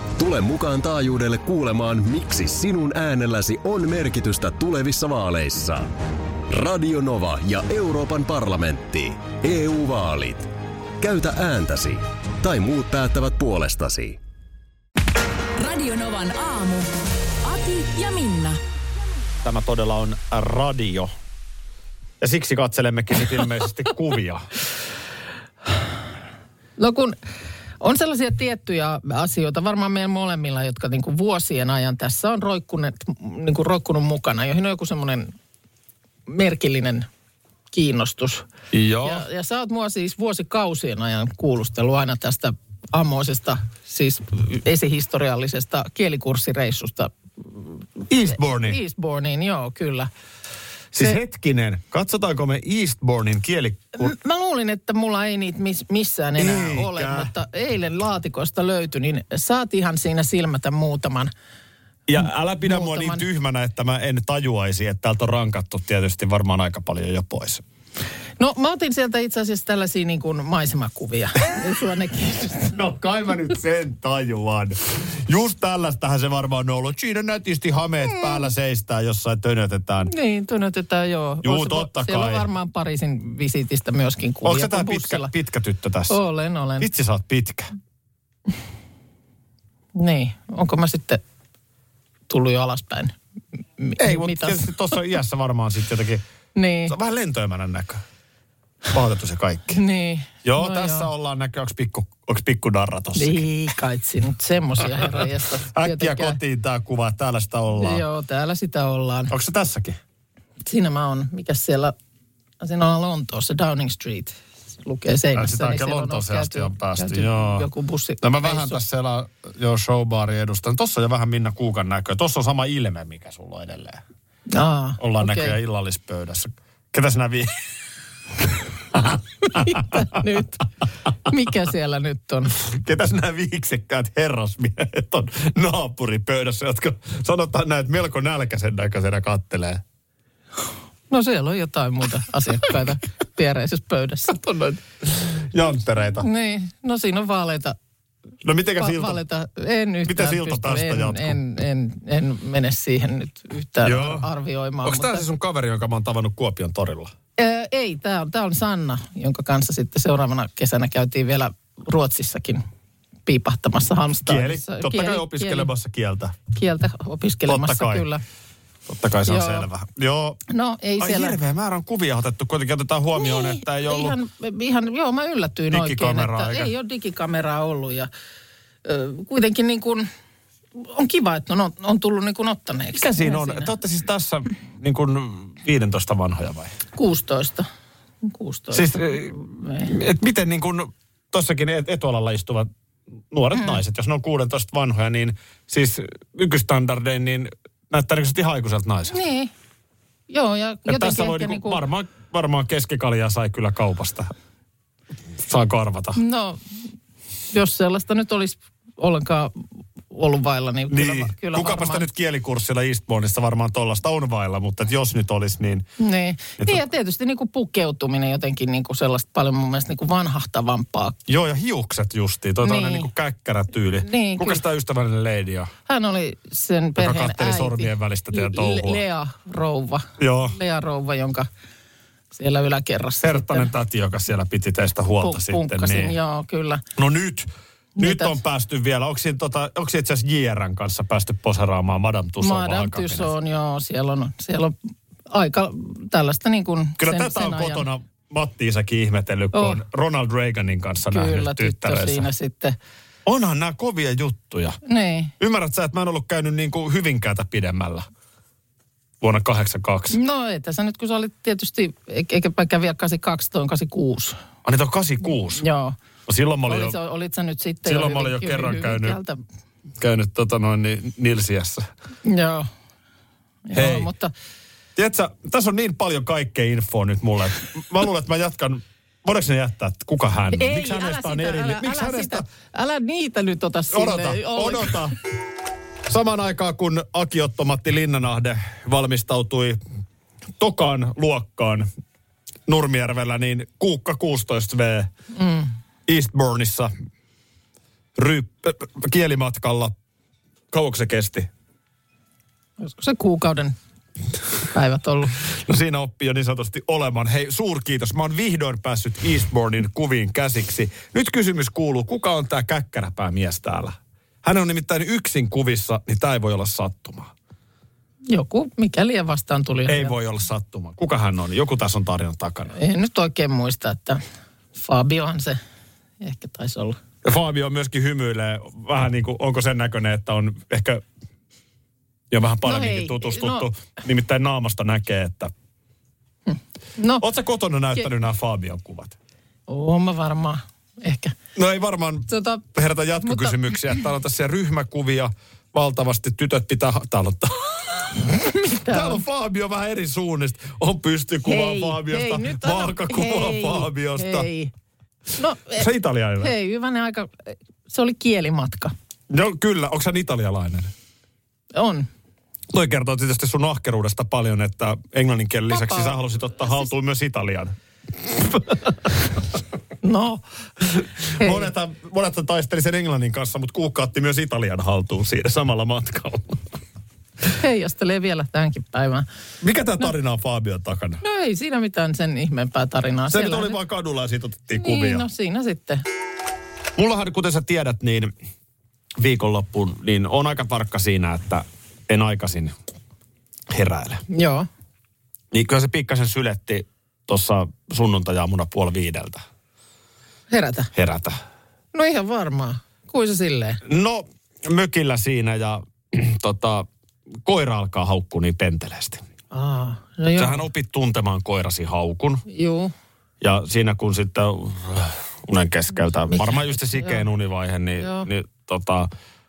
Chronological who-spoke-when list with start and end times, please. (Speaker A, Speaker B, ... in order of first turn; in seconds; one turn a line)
Speaker A: 0.2-5.9
Speaker A: 6.5-10.5
Speaker A: 11.0-14.2
Speaker B: 15.6-16.9
Speaker B: 17.4-18.6
Speaker C: 19.4-21.1
Speaker C: 22.2-24.4
Speaker D: 26.8-27.1
Speaker D: 27.8-35.3
Speaker D: 36.3-37.1
Speaker D: 37.7-38.5
Speaker C: 38.7-39.2
Speaker D: 39.0-50.1
Speaker C: 48.1-48.8
Speaker C: 50.9-54.1
Speaker D: 54.0-61.3
Speaker C: 56.4-57.3
Speaker C: 62.1-67.6
Speaker D: 62.6-63.2
Speaker D: 68.4-72.7
Speaker C: 72.7-80.1
Speaker D: 78.1-78.4
Speaker D: 80.0-85.3
Speaker C: 81.4-82.5
Speaker C: 84.4-86.2
Speaker D: 86.1-86.9
Speaker C: 86.8-87.7
Speaker D: 90.0-91.2
Speaker D: 92.3-93.2
Speaker D: 93.8-94.7
Speaker C: 94.0-96.2
Speaker D: 96.5-96.9
Speaker C: 96.9-98.0
Speaker C: 98.9-99.8
Speaker D: 99.7-101.1
Speaker C: 100.4-103.4
Speaker D: 103.2-106.4
Speaker C: 105.0-108.0
Speaker D: 107.8-109.3
Speaker C: 109.3-110.0
Speaker D: 110.7-111.9
Speaker D: 112.6-118.8
Speaker C: 115.3-117.7
Speaker C: 118.2-124.0
Speaker D: 124.5-125.5
Speaker C: 125.0-127.5
Speaker C: 128.9-130.3
Speaker D: 129.5-130.6
Speaker D: 131.2-132.5
Speaker C: 132.6-139.8
Speaker D: 141.1-144.8
Speaker C: 145.2-146.3
Speaker D: 146.2-147.8
Speaker C: 148.4-149.2
Speaker D: 148.8-155.2
Speaker C: 150.0-151.4
Speaker C: 153.8-154.3
Speaker C: 154.8-157.1
Speaker D: 157.4-162.6
Speaker D: 163.3-165.7
Speaker C: 164.2-166.3
Speaker D: 166.5-168.2
Speaker C: 167.5-168.1
Speaker C: 168.9-170.4
Speaker D: 169.3-169.7
Speaker D: 170.5-171.4
Speaker C: 171.0-174.2
Speaker D: 173.2-178.1
Speaker C: 175.7-176.7
Speaker D: 178.8-180.1
Speaker D: 180.8-183.7
Speaker C: 182.9-186.7
Speaker D: 186.9-187.7
Speaker D: 188.2-189.9
Speaker C: 188.7-192.7
Speaker C: 193.3-199.2
Speaker D: 199.1-199.5
Speaker D: 200.3-201.8
Speaker C: 200.8-204.3
Speaker C: 205.4-206.2
Speaker D: 206.2-206.6
Speaker D: 207.5-212.1
Speaker C: 210.9-215.8
Speaker D: 216.0-221.2
Speaker C: 221.3-225.7
Speaker D: 222.6-223.1
Speaker D: 224.0-224.6
Speaker D: 225.9-231.5
Speaker C: 227.0-229.0
Speaker C: 230.2-230.6
Speaker D: 232.3-233.7
Speaker C: 233.2-236.2
Speaker D: 235.1-236.8
Speaker C: 236.9-243.3
Speaker D: 238.0-238.4
Speaker D: 242.4-244.7
Speaker D: 245.3-247.8
Speaker C: 247.0-252.3
Speaker D: 249.5-249.8
Speaker D: 251.1-252.8
Speaker C: 253.2-254.8
Speaker D: 254.8-255.3
Speaker C: 255.4-258.1
Speaker C: 259.2-260.2
Speaker D: 260.1-264.4
Speaker C: 264.6-265.6
Speaker D: 265.6-266.0
Speaker C: 266.3-267.0
Speaker D: 266.7-269.4
Speaker C: 267.8-269.2
Speaker C: 270.0-271.9
Speaker D: 272.2-272.7
Speaker D: 273.7-274.3
Speaker C: 273.7-274.1
Speaker C: 274.9-282.4
Speaker D: 280.5-285.1
Speaker C: 283.9-285.1
Speaker C: 286.1-289.8
Speaker C: 290.6-291.9
Speaker C: 292.6-295.1
Speaker D: 295.3-295.7
Speaker C: 296.1-296.9
Speaker C: 298.1-299.9
Speaker C: 300.7-301.5
Speaker D: 302.8-303.8
Speaker D: 304.7-305.4
Speaker C: 305.4-317.3
Speaker D: 318.3-320.1
Speaker C: 319.9-322.7
Speaker D: 322.7-324.2
Speaker D: 324.7-325.6
Speaker D: 326.2-327.0
Speaker C: 327.2-331.0
Speaker C: 332.3-335.5
Speaker D: 332.6-333.7
Speaker D: 336.5-337.2
Speaker C: 337.2-339.1
Speaker D: 339.7-341.4
Speaker C: 341.5-348.2
Speaker D: 342.3-342.6
Speaker D: 343.2-344.0
Speaker D: 348.4-349.2
Speaker C: 348.7-354.5
Speaker D: 351.4-354.7
Speaker D: 355.4-358.9
Speaker C: 355.8-356.5
Speaker C: 359.3-360.9
Speaker D: 361.7-362.1
Speaker C: 362.7-369.4
Speaker D: 365.7-366.2
Speaker D: 370.0-370.4
Speaker C: 370.8-376.8
Speaker D: 371.4-371.7
Speaker D: 377.6-379.2
Speaker C: 379.6-381.2
Speaker D: 381.2-383.8
Speaker C: 383.3-385.2
Speaker D: 384.7-386.0
Speaker C: 387.0-388.3
Speaker C: 389.2-392.7
Speaker C: 393.7-394.2
Speaker D: 394.3-394.7
Speaker C: 395.5-399.4
Speaker D: 400.5-400.9
Speaker C: 400.9-401.4
Speaker D: 401.9-403.8
Speaker C: 403.8-406.9
Speaker C: 407.4-409.2
Speaker D: 409.5-410.6
Speaker C: 410.3-412.4
Speaker D: 412.5-412.9
Speaker C: 413.4-419.1
Speaker D: 416.3-417.2
Speaker D: 418.0-418.3